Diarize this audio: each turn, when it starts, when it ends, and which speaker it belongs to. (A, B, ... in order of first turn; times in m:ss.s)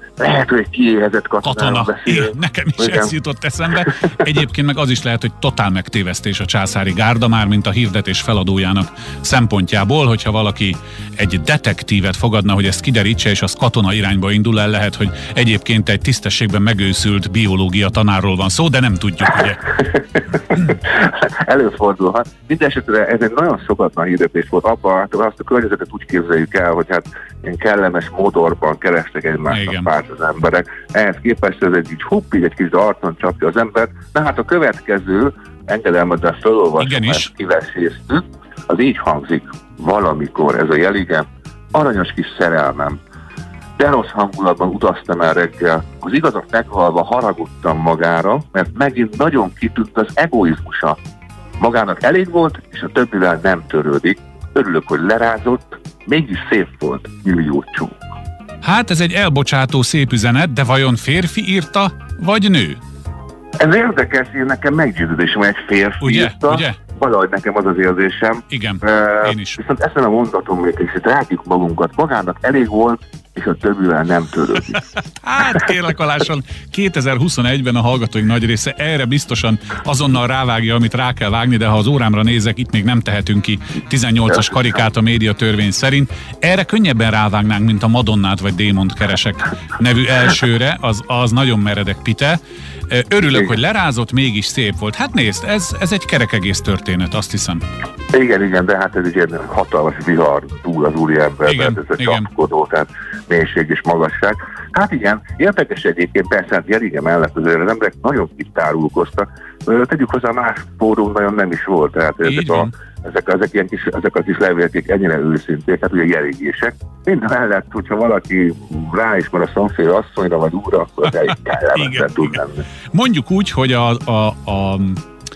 0:00.2-0:03.1 A
0:01.4-0:19.8 B
0:20.0-0:43.0 A
0:29.5-0:29.9 B
0:36.8-0:37.3 B
0:43.8-0:51.0 A
0:51.6-0:57.9 A
0:58.6-1:02.8 B
1:03.6-1:14.8 A
1:06.0-1:06.8 B
1:08.5-1:09.6 B
1:15.2-1:37.6 B
1:38.1-2:02.6 A
1:41.5-1:42.3 B
1:52.2-1:52.7 B
2:01.1-2:02.4 B
2:02.9-2:05.0 B